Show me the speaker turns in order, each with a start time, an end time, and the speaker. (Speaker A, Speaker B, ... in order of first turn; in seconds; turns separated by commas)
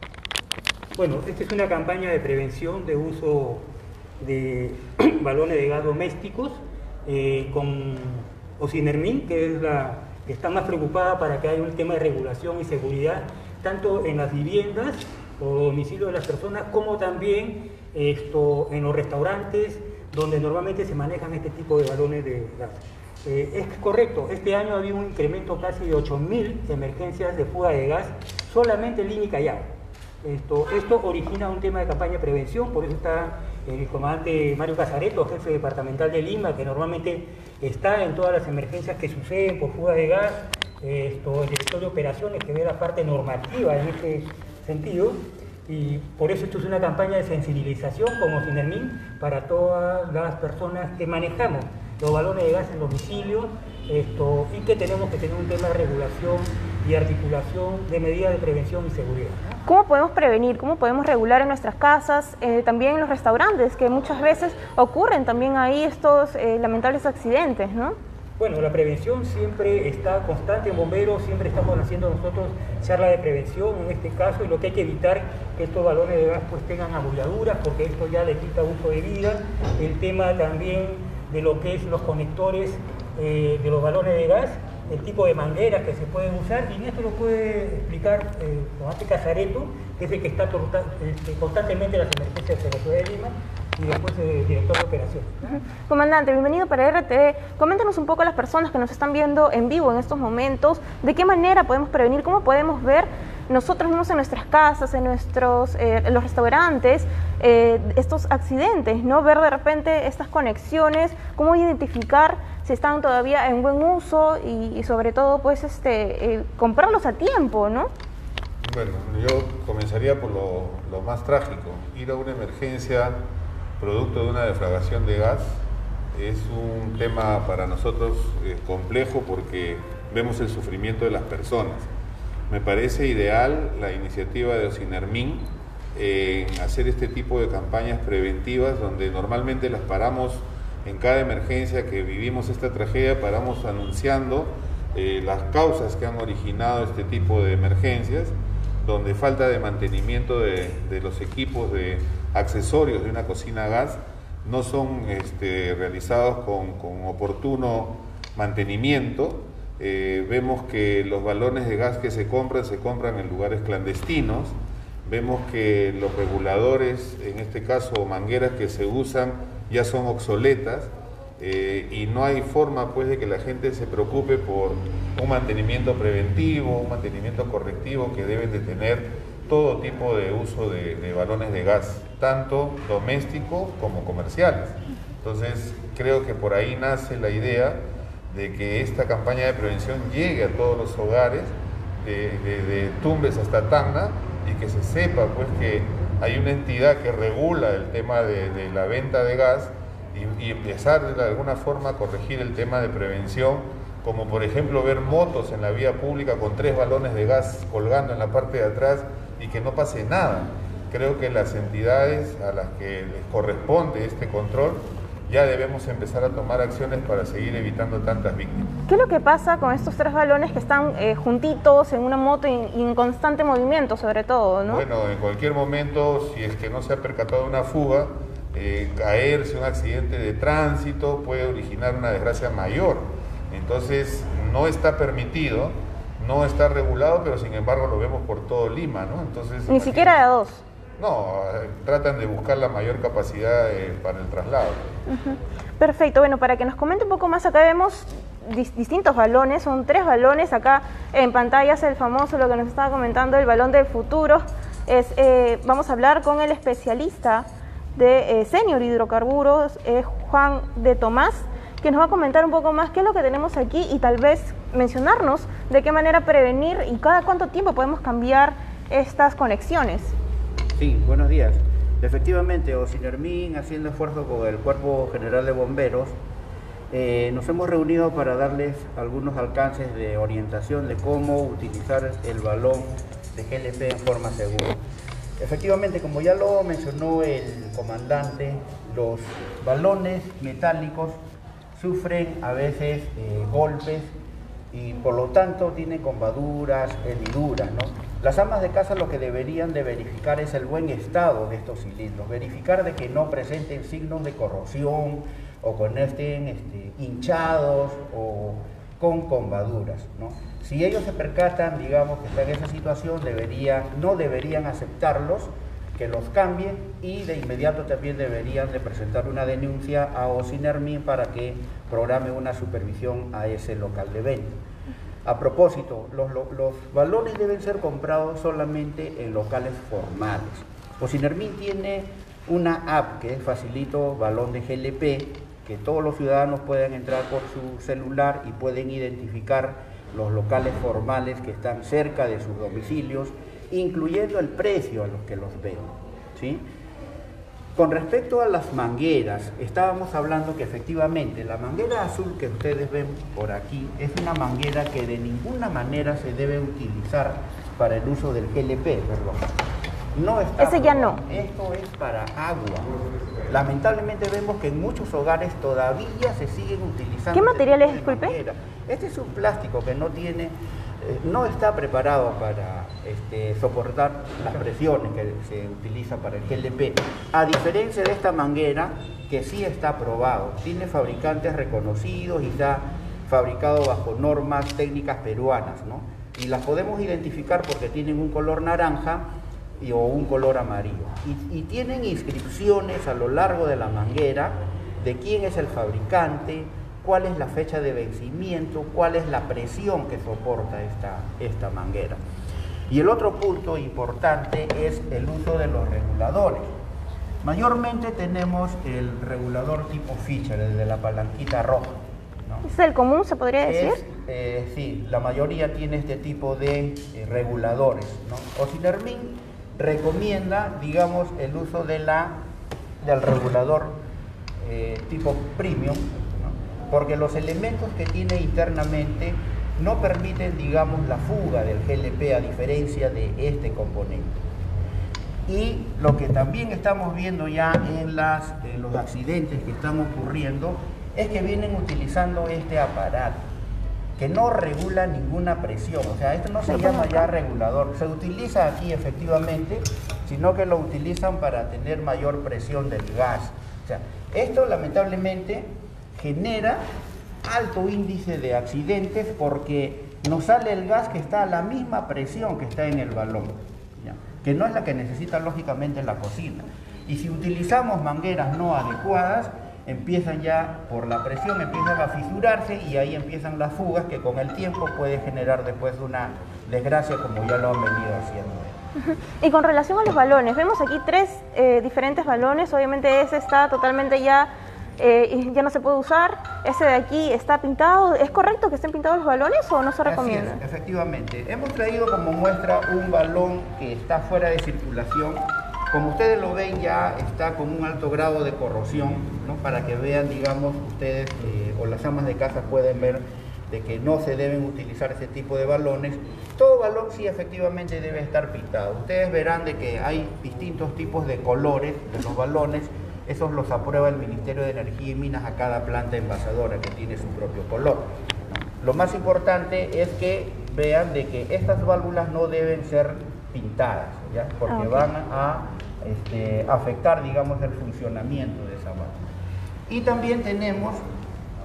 Speaker A: 0.9-3.7, Speaker A: 4.2-29.7, Speaker A: 30.2-59.6, Speaker B: 59.7-68.0, Speaker A: 68.4-95.6, Speaker B: 95.5-117.9, Speaker C: 118.6-123.2, Speaker C: 123.8-125.6, Speaker C: 126.1-131.9, Speaker C: 132.5-218.7, Speaker B: 218.9-224.8, Speaker C: 224.7-240.2, Speaker B: 239.7-240.6, Speaker C: 241.0-244.8, Speaker B: 245.1-270.2, Speaker D: 270.8-276.2, Speaker D: 276.9-284.8, Speaker D: 285.4-291.2, Speaker D: 291.8-294.2, Speaker D: 294.7-324.6, Speaker D: 325.2-346.6, Speaker D: 347.8-359.5, Speaker D: 360.1-362.9, Speaker B: 360.6-361.2, Speaker D: 363.5-389.3, Speaker B: 367.3-368.4, Speaker D: 389.8-402.2, Speaker D: 402.9-406.7, Speaker D: 407.4-412.7, Speaker B: 412.6-414.0, Speaker D: 413.6-422.4, Speaker D: 423.0-424.0, Speaker D: 424.6-434.4, Speaker D: 435.5-443.5, Speaker D: 444.2-456.9, Speaker B: 446.7-447.3, Speaker D: 457.4-478.8, Speaker B: 479.0-490.6, Speaker D: 490.0-518.1, Speaker D: 518.8-529.2, Speaker B: 524.7-525.1, Speaker D: 529.9-531.0